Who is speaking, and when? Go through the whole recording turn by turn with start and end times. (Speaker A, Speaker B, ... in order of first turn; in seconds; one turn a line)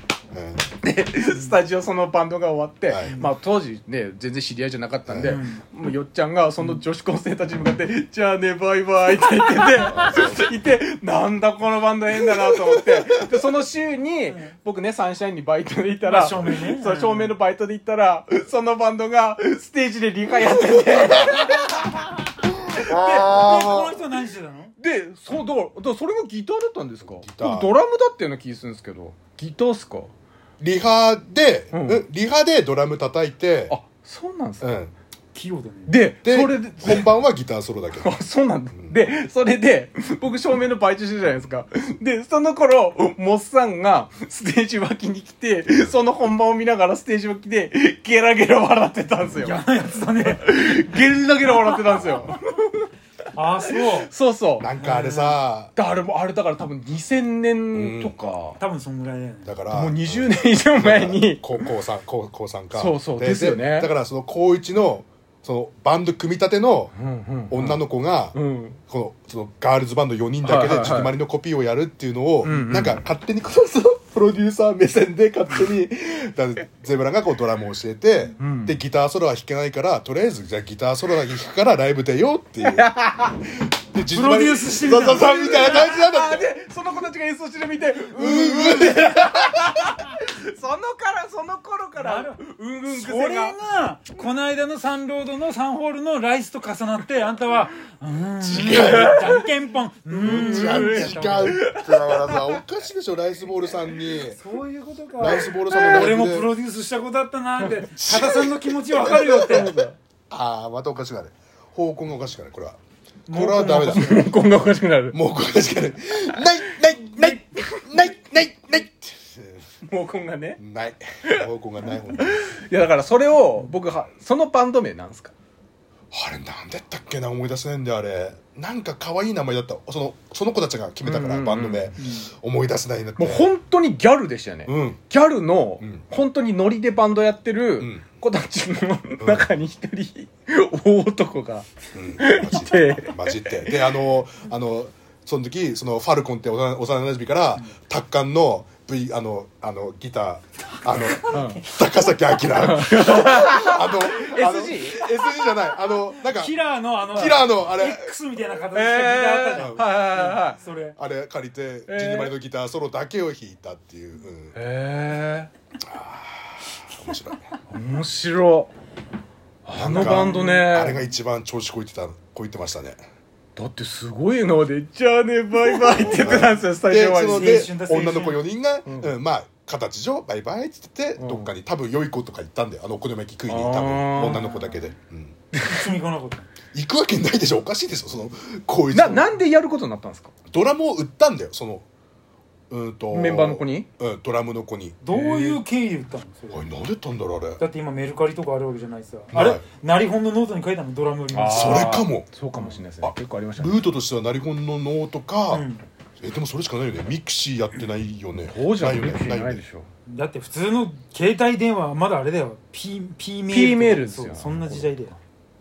Speaker A: 0.3-0.7
Speaker B: 0.8-22.1
Speaker C: 1.3-1.6
Speaker A: 2.9-3.2
Speaker A: 5.1-5.4
Speaker C: 5.2-5.6
Speaker A: 9.8-10.5
Speaker C: 14.3-14.6
Speaker C: 16.0-17.4
Speaker A: 22.5-24.0
Speaker C: 22.7-24.7
Speaker B: 24.8-30.1
Speaker A: 27.0-27.7
Speaker A: 30.6-33.8
Speaker B: 31.7-32.1
Speaker B: 33.7-34.6
Speaker A: 34.6-34.9
Speaker C: 35.4-36.0
Speaker B: 35.9-37.1
Speaker A: 36.2-38.1
Speaker B: 37.9-49.6
Speaker A: 38.7-39.0
Speaker C: 49.4-50.5
Speaker B: 50.2-52.9
Speaker C: 53.3-54.1
Speaker B: 53.7-54.7
Speaker A: 54.6-55.7
Speaker C: 54.8-55.4
Speaker B: 55.8-58.6
Speaker A: 57.7-58.2
Speaker C: 58.6-59.6
Speaker A: 59.5-66.9
Speaker B: 59.7-61.7
Speaker B: 62.7-63.9
Speaker B: 67.0-68.8
Speaker A: 67.5-68.4
Speaker A: 68.9-82.9
Speaker B: 70.4-71.2
Speaker B: 72.4-73.0
Speaker B: 78.4-78.8
Speaker B: 82.6-83.4
Speaker A: 83.9-86.5
Speaker C: 84.1-85.6
Speaker B: 85.2-93.6
Speaker A: 88.2-89.6
Speaker C: 92.0-101.6
Speaker A: 98.4-99.3
Speaker B: 98.6-99.5
Speaker B: 100.1-102.6
Speaker A: 100.2-104.4
Speaker C: 104.2-109.8
Speaker A: 105.2-106.5
Speaker B: 105.3-106.2
Speaker A: 108.0-109.7
Speaker B: 109.0-110.0
Speaker A: 110.3-112.8
Speaker C: 113.3-114.3
Speaker A: 113.3-114.3
Speaker B: 113.8-115.2
Speaker A: 115.1-119.7
Speaker B: 117.6-118.1
Speaker B: 119.9-120.6
Speaker A: 120.6-122.5
Speaker B: 122.1-125.3
Speaker A: 126.1-133.5
Speaker B: 131.0-131.9
Speaker C: 132.0-132.3
Speaker B: 133.2-143.8
Speaker A: 134.7-135.0
Speaker A: 135.8-136.1
Speaker A: 137.8-138.2
Speaker A: 139.2-139.5
Speaker A: 141.9-158.1
Speaker B: 151.3-151.7
Speaker B: 152.5-155.1
Speaker C: 155.8-161.0
Speaker B: 158.7-160.6
Speaker A: 159.5-159.9
Speaker A: 161.0-164.6
Speaker B: 161.9-162.3
Speaker B: 164.6-165.5
Speaker A: 165.9-167.5
Speaker B: 167.7-168.7
Speaker B: 169.7-171.0
Speaker A: 169.8-173.0
Speaker C: 169.8-170.7
Speaker B: 173.6-177.7
Speaker A: 175.8-185.4
Speaker C: 177.3-178.4
Speaker B: 178.9-179.1
Speaker B: 181.2-181.5
Speaker B: 183.5-184.5
Speaker C: 184.5-184.9
Speaker B: 185.6-185.9
Speaker C: 185.6-186.5
Speaker A: 186.7-189.3
Speaker B: 188.9-190.3
Speaker A: 190.5-191.9
Speaker A: 192.7-195.0
Speaker B: 193.1-193.9
Speaker C: 195.0-196.7
Speaker B: 195.1-195.6
Speaker A: 196.5-197.6
Speaker C: 197.6-202.8
Speaker A: 199.3-199.7
Speaker B: 201.3-203.9
Speaker A: 201.5-202.3
Speaker A: 203.0-205.7
Speaker C: 205.5-205.8
Speaker A: 206.2-209.6
Speaker B: 208.4-209.9
Speaker C: 210.1-215.2
Speaker B: 213.5-214.9